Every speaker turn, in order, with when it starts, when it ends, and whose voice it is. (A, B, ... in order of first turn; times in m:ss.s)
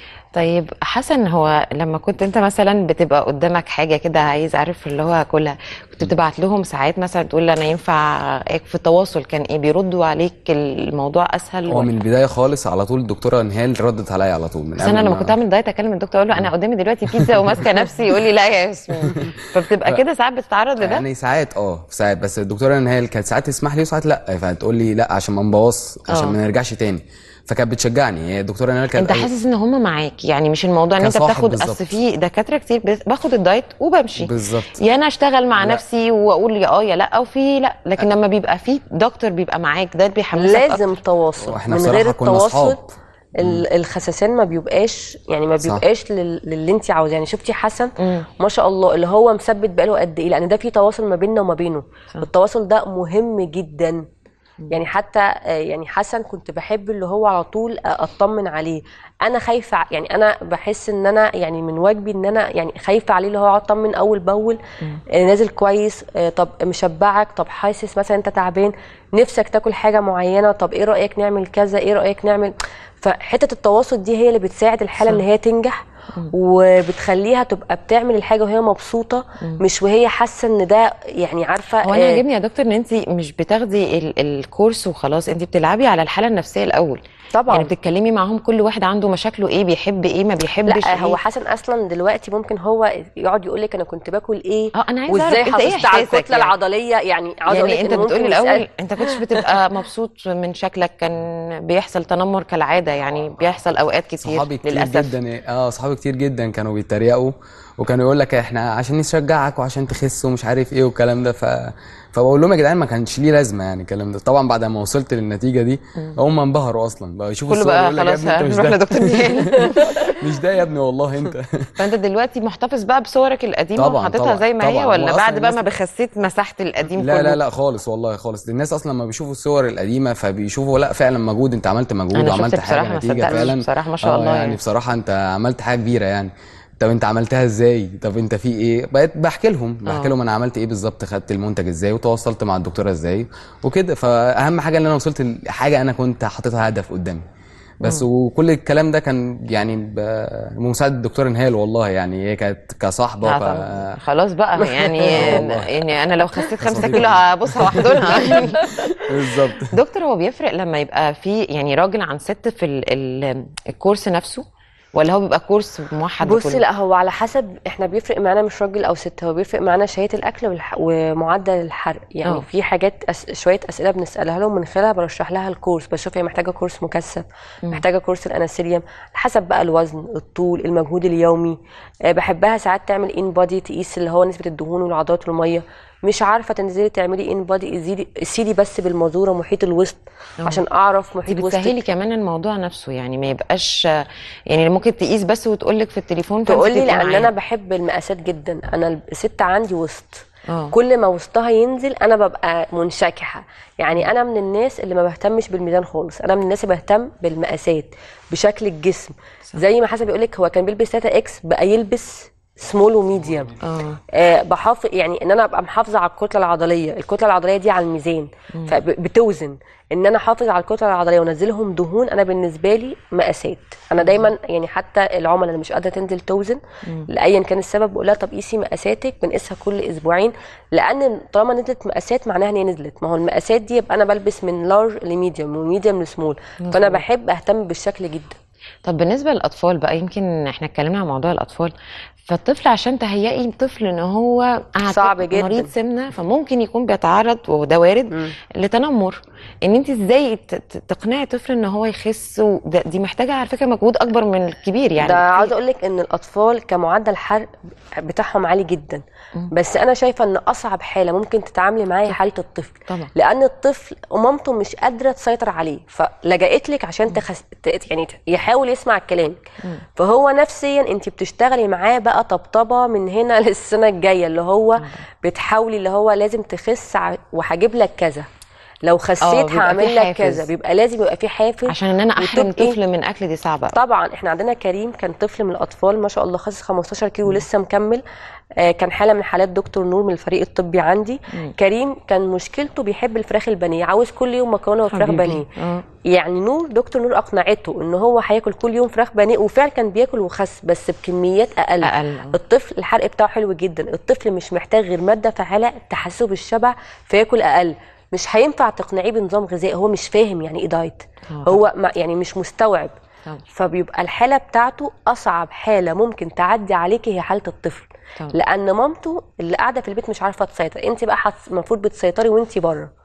0:00.3-0:11.9 A
0:11.7-0:15.3 B
0:14.8-0:21.0 A
0:17.1-0:17.6 B
0:19.0-0:20.0 B
0:20.8-0:29.3 B
0:26.1-0:26.4 A
0:29.0-0:40.8 A
0:31.0-0:31.9 B
0:34.2-0:34.8 B
0:40.4-0:42.8 C
0:41.4-0:42.8 B
0:43.4-0:54.0 C
0:48.0-0:48.2 A
0:54.7-1:04.6 C
1:05.1-1:15.8 C
1:16.3-1:22.2 C
1:21.8-1:31.2 A
1:27.3-1:27.7 C
1:30.6-1:39.4 C
1:34.7-1:36.5 A
1:37.5-1:45.1 A
1:44.2-2:01.7 B
1:57.5-2:00.0 A
2:01.8-2:07.4 A
2:03.8-2:05.6 B
2:07.0-2:27.2 B
2:12.1-2:14.6 A
2:19.9-2:20.1 A
2:27.8-2:34.0 B
2:33.2-2:38.6 A
2:34.6-2:35.4 C
2:35.1-2:35.9 B
2:36.6-2:39.7 B
2:39.7-2:44.4 A
2:45.0-2:46.6 A
2:46.2-3:11.8 C
3:11.3-3:17.3 A
3:16.5-3:33.5 C
3:20.5-3:20.7 A
3:33.6-3:34.0 A
3:34.1-3:58.4 C
3:44.0-3:44.3 A
3:56.6-3:57.0 A
3:58.8-4:01.7 A
4:02.2-4:15.5 A
4:04.9-4:05.7 C
4:15.0-4:29.4 C
4:30.0-4:38.3 C
4:34.8-4:35.0 A
4:38.8-4:42.8 C
4:39.2-4:40.4 A
4:41.7-4:43.8 A
4:43.7-4:48.0 C
4:48.6-4:55.5 C
4:54.9-4:55.8 A
4:56.0-5:12.9 C
5:01.8-5:02.4 A
5:11.3-5:11.6 A
5:13.5-5:22.9 C